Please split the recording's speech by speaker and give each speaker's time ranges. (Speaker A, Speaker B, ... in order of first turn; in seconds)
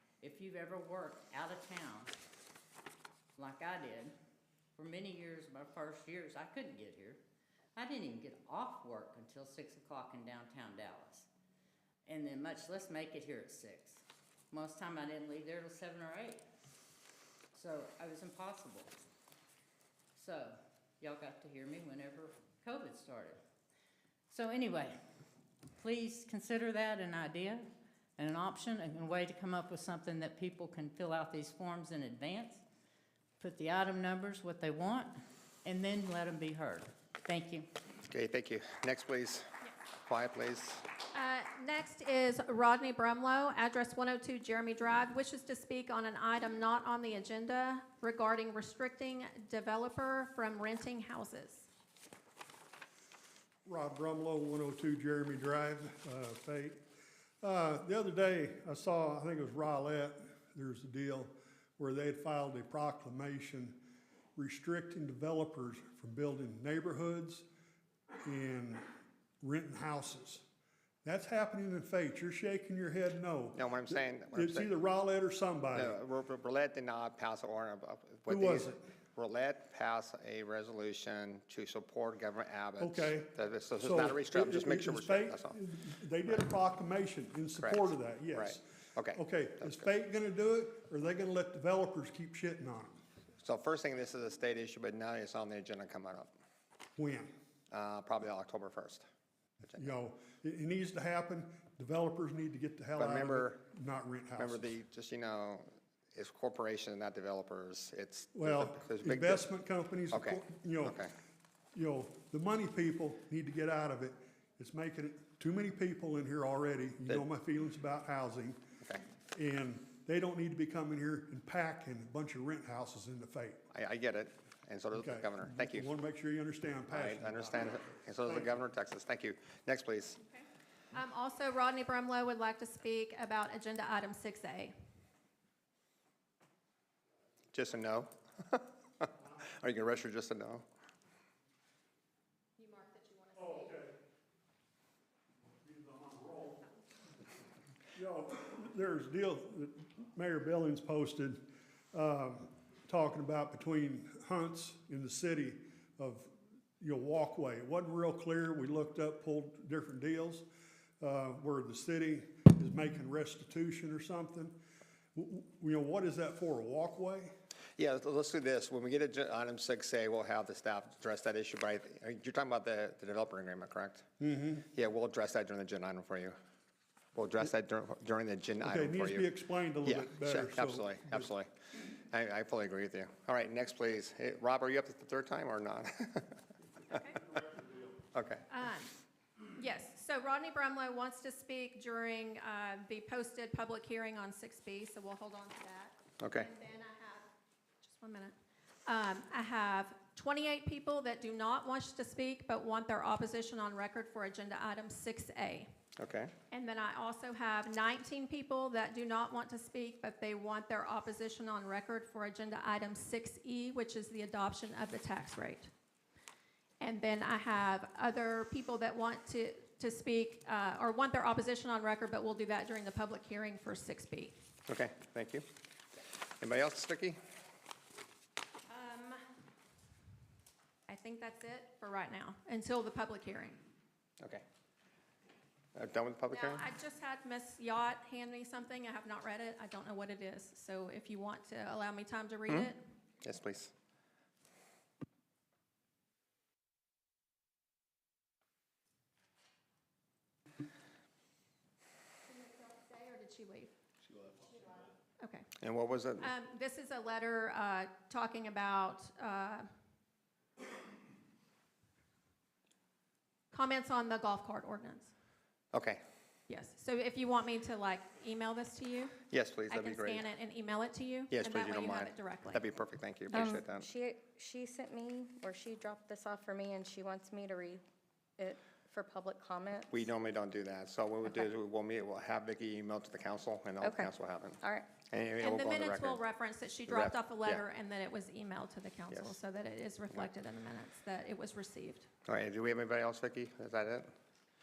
Speaker A: 0.2-2.1, 3.4-4.1, 4.8-7.2, 7.8-11.3, 12.1-16.4, 17.5-19.0, 20.2-23.4, 24.3-25.0, 25.8-27.7, 28.2-32.6, 33.4-35.1, 35.6-37.7
Speaker B: 38.1-39.5, 40.1-40.9, 73.6-74.7, 75.7-85.6, 87.6-89.9, 93.4-96.3, 97.7-99.1, 103.0-103.6, 104.4-109.5, 110.1-111.1, 123.7-125.9, 126.9-130.2, 137.5-140.7, 167.8-174.1, 174.7-176.4, 177.2-179.3, 179.8-186.4, 188.1-188.4, 196.2-196.5, 206.0-206.3, 224.7-225.4, 226.4-227.2, 235.8-236.6, 243.2-243.7, 255.6-256.3, 265.7-266.0, 269.3-270.2, 271.3-273.9, 279.9-286.2, 286.9-287.6, 292.3-294.1
Speaker C: 41.1-51.7, 130.3-134.7, 142.6-143.8, 186.9-187.2, 188.5-188.9, 189.6-197.3, 197.8-198.3, 198.9-205.7, 206.5-215.7, 216.8-224.3, 228.7-229.2, 230.9-233.6, 236.3-242.8, 252.3-253.7, 254.5-255.5, 256.2-259.7, 263.5-265.1, 266.5-269.2, 269.7-272.6, 285.4-292.1
Speaker D: 53.6-56.9, 57.4-63.8, 64.4-67.5, 68.2-68.8, 69.4-70.5, 71.0-76.0, 78.3-78.8, 82.8-93.0, 97.0-97.3, 99.7-104.7, 108.3-111.1, 111.7-118.6, 119.3-123.6, 124.9-128.6, 143.4-144.0, 145.6-146.7, 147.9-160.5, 161.0-164.6, 165.2-167.3, 174.2-174.7, 178.6-181.3, 187.3-187.9
Speaker E: 273.3-277.8, 278.4-280.1, 281.2-281.5, 283.8-285.0